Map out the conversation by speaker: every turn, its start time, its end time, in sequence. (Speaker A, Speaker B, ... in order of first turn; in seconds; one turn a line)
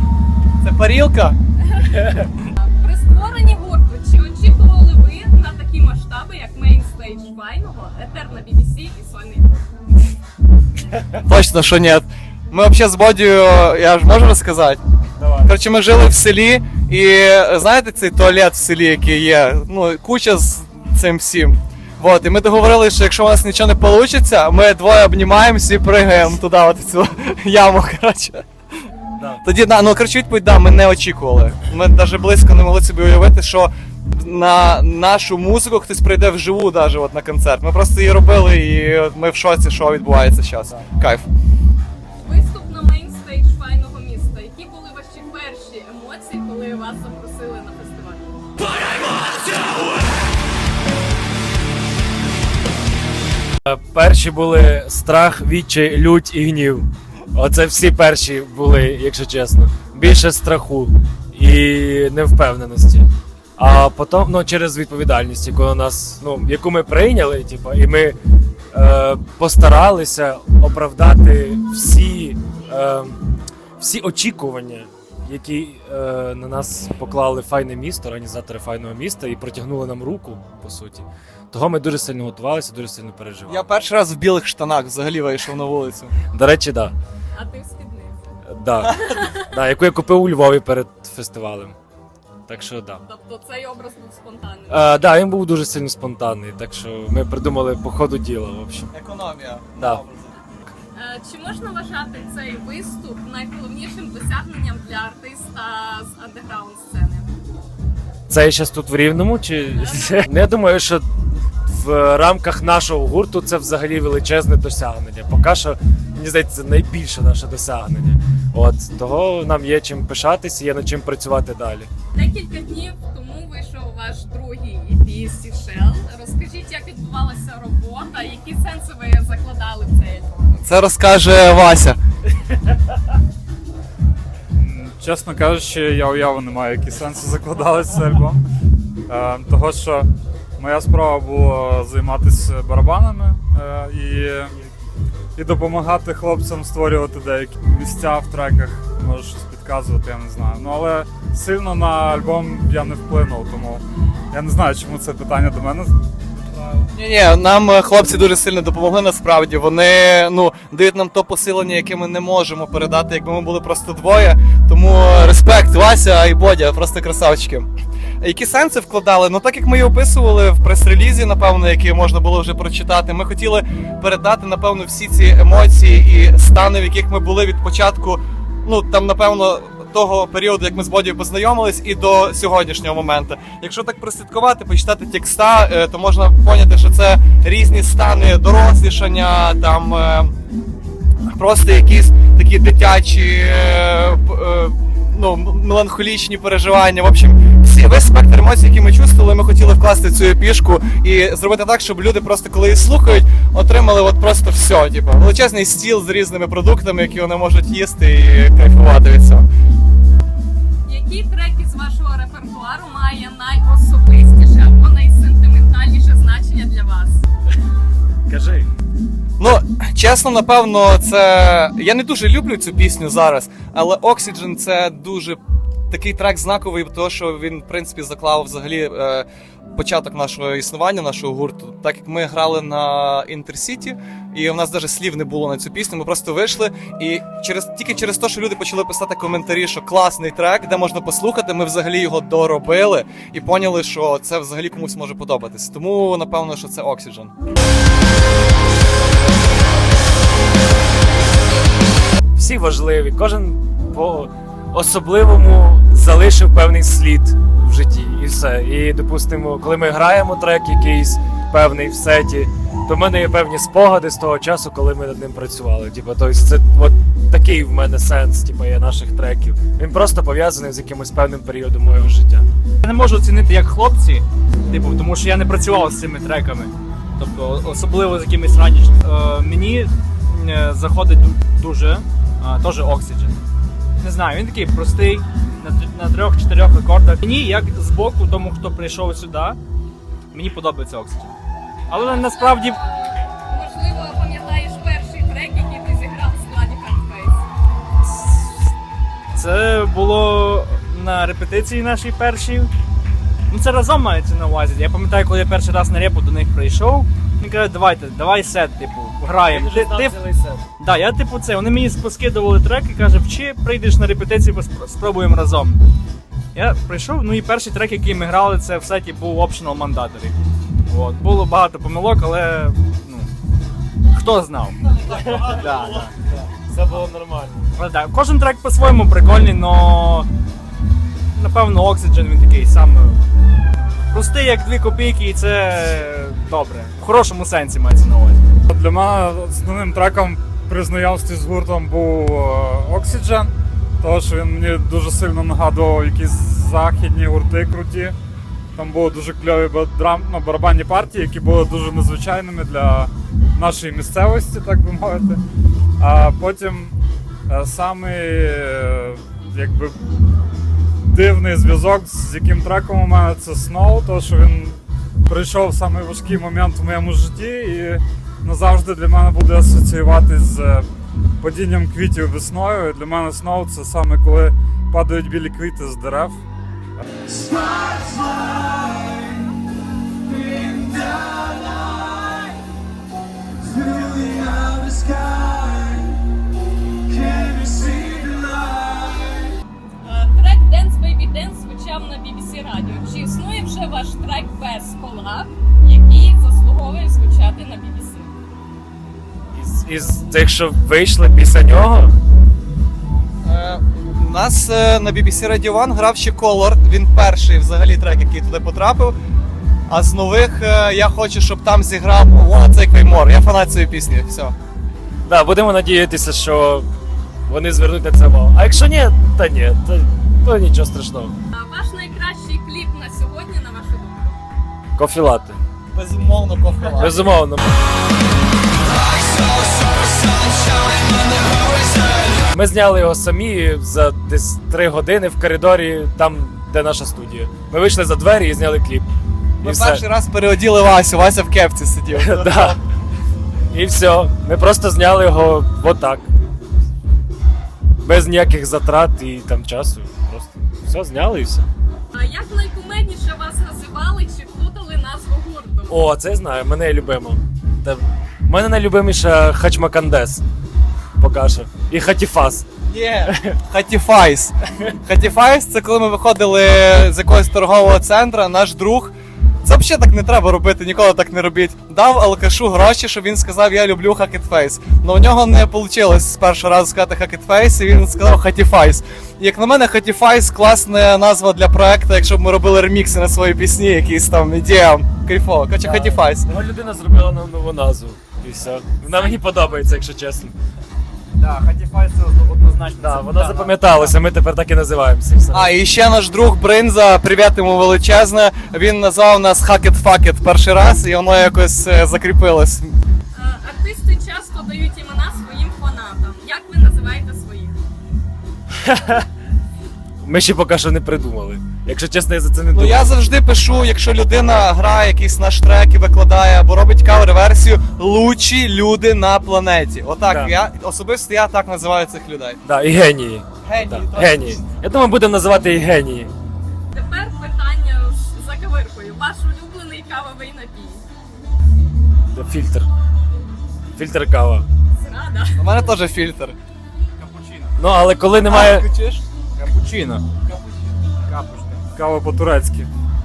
Speaker A: 0.6-1.4
Speaker B: 1.7-9.6
Speaker A: 11.2-14.8
Speaker C: 15.2-15.5
Speaker A: 15.4-28.4
Speaker A: 29.4-41.3
Speaker B: 42.2-48.3
Speaker C: 53.6-68.2
Speaker C: 68.7-73.2
Speaker C: 73.8-83.7
Speaker A: 83.5-86.1
Speaker C: 86.3-86.9
Speaker B: 87.3-89.5
Speaker C: 88.5-91.8
Speaker C: 92.5-93.0
Speaker B: 93.0-94.9
Speaker C: 94.7-98.9
Speaker A: 98.9-100.4
Speaker B: 100.9-107.3
Speaker C: 108.3-111.1
Speaker B: 109.8-110.2
Speaker C: 111.7-121.9
Speaker B: 122.1-130.5
Speaker A: 130.6-132.0
Speaker D: 134.6-138.4
Speaker D: 139.1-144.5
Speaker D: 145.4-156.9
Speaker A: 156.9-167.7
Speaker A: 168.2-190.3
Speaker A: 191.3-209.5
Speaker B: 210.9-217.2
Speaker C: 218.3-218.7
Speaker A: 219.4-225.4
Speaker A: 225.9-247.3
Speaker C: 252.4-272.5
Speaker E: 272.8-283.4
Speaker E: 284.0-289.6
Speaker E: 290.3-291.4
Speaker E: 291.9-292.8
Speaker B: 292.0-297.4
Speaker E: 298.1-298.4
Speaker E: 299.3-302.7
Speaker E: 303.5-310.2
Speaker C: 309.4-310.6
Speaker E: 310.8-315.8
Speaker E: 316.5-320.4
Speaker E: 320.9-323.3
Speaker E: 324.1-326.1
Speaker C: 325.0-327.7
Speaker E: 327.7-330.3
Speaker E: 331.4-333.2
Speaker E: 333.8-338.4
Speaker D: 338.7-348.1
Speaker D: 348.8-355.4
Speaker D: 356.0-357.0
Speaker D: 357.5-360.0
Speaker D: 361.0-370.9
Speaker D: 371.4-376.4
Speaker E: 380.6-381.0
Speaker E: 384.0-384.6
Speaker E: 387.4-388.6
Speaker B: 390.0-398.3
Speaker C: 399.5-402.1
Speaker A: 403.4-409.2
Speaker A: 409.9-414.6
Speaker C: 415.3-416.9
Speaker C: 417.5-421.4
Speaker B: 421.5-424.4
Speaker C: 425.0-425.6
Speaker A: 425.9-427.2
Speaker C: 427.0-427.8
Speaker A: 428.9-432.4
Speaker C: 432.5-439.1
Speaker C: 439.6-440.0
Speaker A: 439.6-442.8
Speaker C: 442.1-442.8
Speaker C: 443.7-446.3
Speaker C: 448.0-451.7
Speaker B: 452.1-456.0
Speaker C: 455.9-460.4
Speaker C: 461.2-462.7
Speaker A: 462.9-486.5
Speaker C: 463.3-463.6
Speaker C: 485.8-490.6
Speaker B: 489.1-489.6
Speaker E: 491.4-494.1
Speaker C: 493.0-495.7
Speaker A: 495.5-502.9
Speaker B: 503.3-507.8
Speaker C: 508.8-509.3
Speaker C: 510.2-513.1
Speaker A: 512.7-522.6
Speaker C: 522.6-526.3
Speaker A: 523.6-524.6
Speaker B: 526.9-531.0
Speaker C: 532.3-532.9
Speaker C: 534.0-534.7
Speaker B: 535.0-535.7
Speaker A: 535.6-536.6
Speaker E: 537.2-537.7
Speaker C: 537.8-538.9
Speaker A: 538.4-539.2
Speaker E: 539.6-540.5
Speaker E: 541.1-541.9
Speaker D: 542.0-542.9